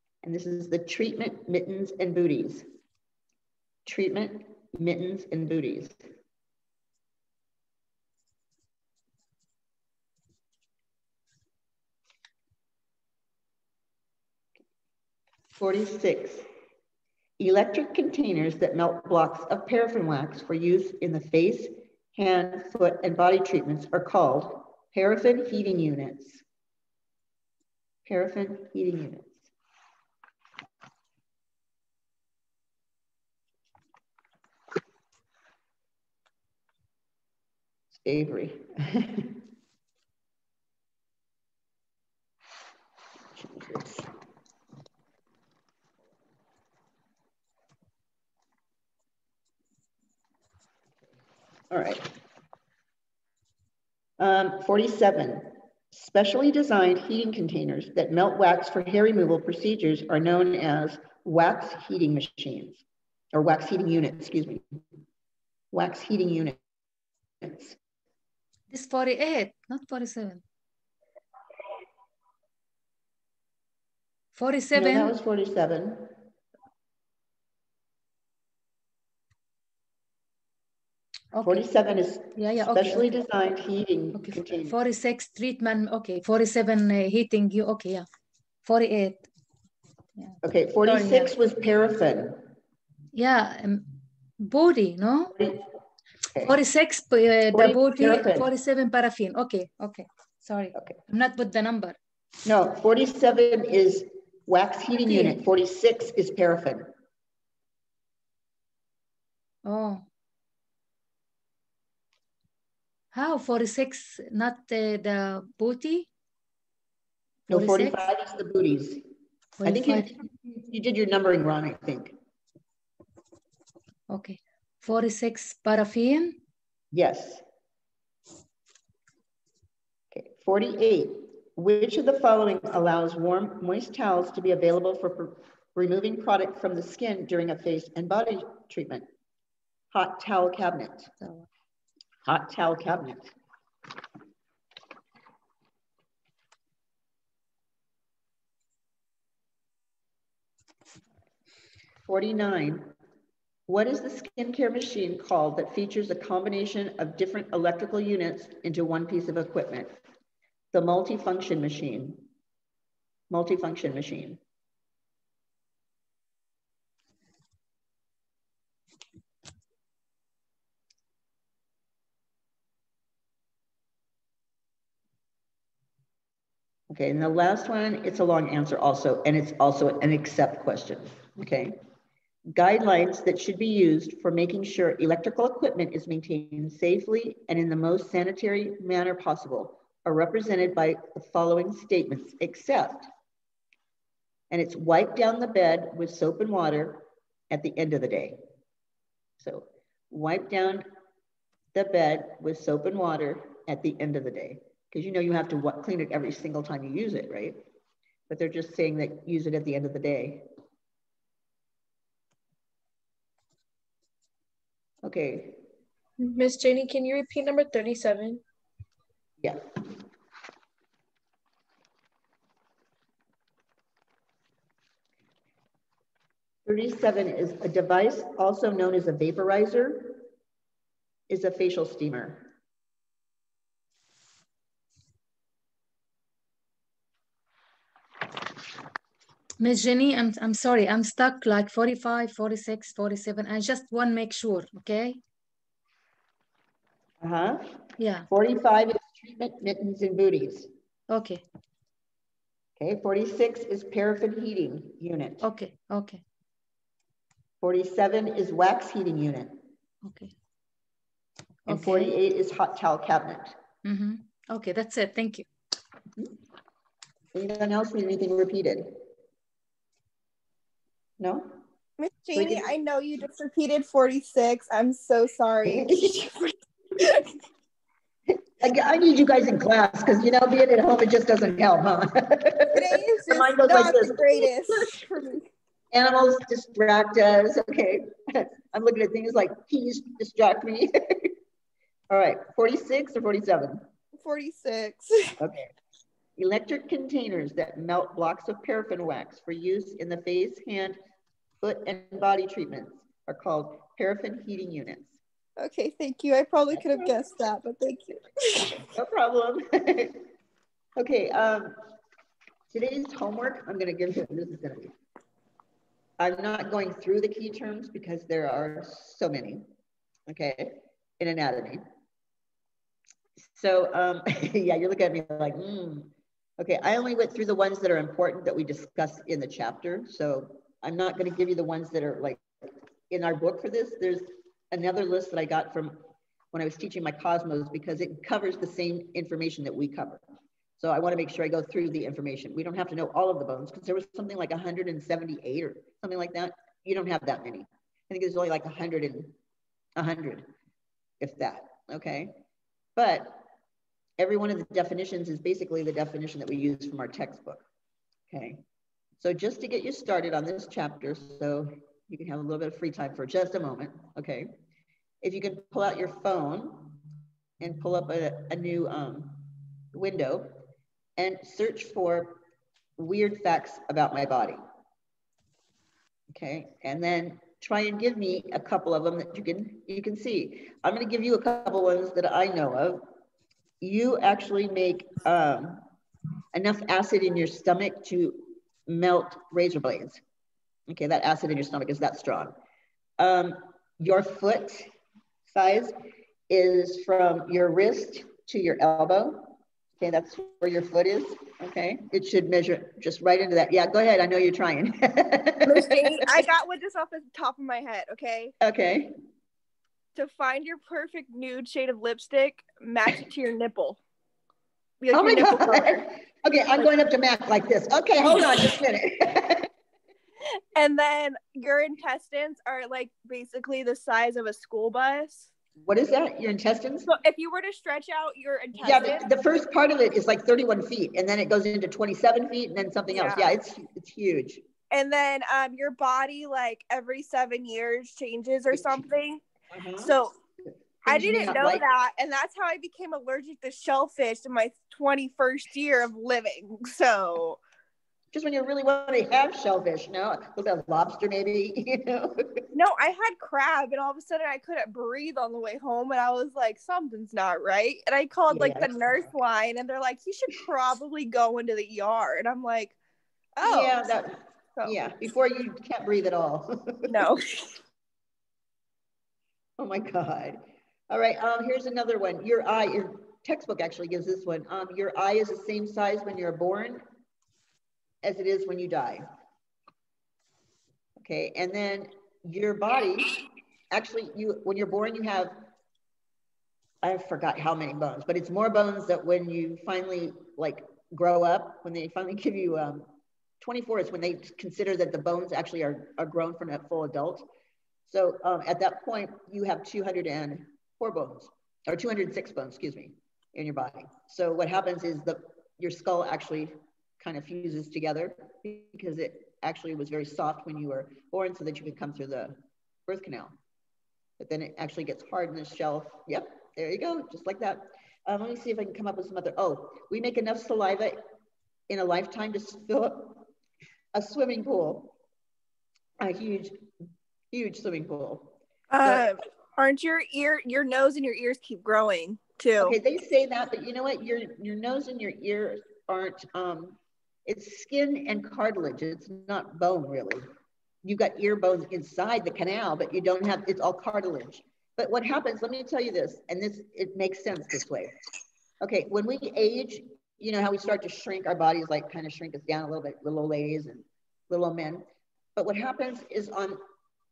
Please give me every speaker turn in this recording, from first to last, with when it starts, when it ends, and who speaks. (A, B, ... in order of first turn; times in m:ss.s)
0:00.2-0:02.6 A
0:03.8-0:06.0 A
0:15.6-0:16.4 A
0:17.4-0:26.4 A
0:28.0-0:29.5 A
0:37.9-0:39.4 A
0:43.4-0:44.1 A
0:51.7-0:52.0 A
0:54.2-1:04.6 A
1:05.7-1:06.6 A
1:07.4-1:07.8 A
1:08.7-1:10.4 B
1:14.4-1:15.2 B
1:14.7-1:16.1 A
1:21.3-1:21.7 B
1:21.4-1:24.7 A
1:22.4-1:23.1 B
1:24.2-1:28.0 B
1:28.6-1:29.2 B
1:30.2-1:31.3 B
1:30.4-1:32.4 A
1:33.1-1:33.9 B
1:34.4-1:35.3 B
1:36.4-1:42.0 B
1:37.5-1:38.5 A
1:40.7-1:41.0 A
1:42.4-1:46.9 A
1:45.1-1:45.4 B
1:49.6-1:50.0 B
1:53.1-1:56.1 B
1:57.5-1:59.0 A
1:57.5-1:58.0 B
1:59.6-2:00.1 B
1:59.6-2:02.1 A
2:04.1-2:06.4 B
2:06.9-2:07.4 A
2:10.1-2:19.0 A
2:19.9-2:21.3 A
2:22.2-2:23.3 A
2:32.0-2:32.9 A
2:33.7-2:40.0 A
2:40.7-2:42.2 A
2:43.3-2:44.4 A
2:56.9-3:01.8 A
3:02.5-3:13.1 A
3:14.5-3:18.4 A
3:19.4-3:20.8 A
3:21.7-3:27.6 A
3:28.3-3:30.4 A
3:35.0-3:35.6 A
3:36.2-3:38.4 C
3:46.6-3:50.3 A
3:51.3-3:52.5 A
3:59.6-4:05.2 B
4:07.2-4:10.7 A
4:08.0-4:08.3 B
4:11.1-4:11.4 B
4:12.8-4:15.4 A
4:15.4-4:16.2 B
4:17.6-4:19.6 A
4:20.0-4:20.3 B
4:21.6-4:22.1 B
4:21.7-4:23.5 A
4:23.8-4:25.4 B
4:27.3-4:29.0 A
4:31.2-4:31.6 A
4:32.0-4:37.3 D
4:32.3-4:32.7 A
4:35.6-4:36.2 A
4:38.6-4:45.0 A
4:42.7-4:45.4 D
4:45.9-4:51.3 A
4:52.1-4:53.8 A
4:54.2-4:55.4 D
4:55.4-4:55.7 A
4:56.4-5:01.0 A
5:01.6-5:05.2 A
5:05.6-5:08.8 D
5:06.7-5:07.2 A
5:08.9-5:10.2 A
5:11.0-5:11.8 A
5:12.7-5:14.9 A
5:16.2-5:19.7 A
5:20.3-5:21.8 A
5:23.4-5:32.4 A
5:33.1-5:36.0 A
5:36.5-5:40.2 A
5:40.8-5:49.3 A
5:50.0-5:50.5 A
5:51.2-5:52.4 A
5:53.0-5:53.4 A
5:54.2-5:57.6 A
5:58.3-5:58.6 A
5:59.2-6:04.5 A
6:05.2-6:07.0 A
6:07.6-6:10.6 A
6:11.2-6:12.4 A
6:13.0-6:14.6 A
6:16.3-6:23.0 A
6:23.8-6:25.8 A
6:26.5-6:30.2 A
6:30.9-6:32.5 A
6:33.2-6:34.9 A
6:35.5-6:35.9 A
6:36.5-6:46.4 A
6:45.6-6:48.5 D
6:48.6-6:49.1 A
6:50.1-6:54.0 D
6:55.0-6:56.0 D
6:55.1-6:59.7 A
6:58.3-6:58.7 D
7:00.7-7:05.5 D
7:05.8-7:07.1 A
7:07.0-7:09.3 D
7:08.7-7:14.6 A
7:13.1-7:13.6 D
7:14.9-7:19.4 D
7:18.7-7:19.0 A
7:19.7-7:20.1 A
7:20.0-7:20.3 D
7:21.0-7:27.6 D
7:21.1-7:21.8 A
7:28.3-7:32.4 A
7:32.7-7:43.0 D
7:38.5-7:39.3 A
7:43.6-7:44.1 D
7:43.6-7:47.2 A
7:47.1-7:47.8 D
7:49.8-7:57.0 A
7:58.2-7:59.2 A
8:01.2-8:05.5 A
8:07.0-8:13.1 A
8:13.6-8:17.5 A
8:18.1-8:32.6 A
8:33.1-8:33.5 A
8:34.4-8:41.2 A
8:41.9-8:43.5 A
8:44.1-8:45.1 A
8:46.2-8:46.8 A
8:47.5-8:49.3 A
8:48.9-8:53.0 D
8:52.8-9:00.5 A
9:01.0-9:08.1 A
9:08.8-9:15.0 A
9:15.6-9:16.8 A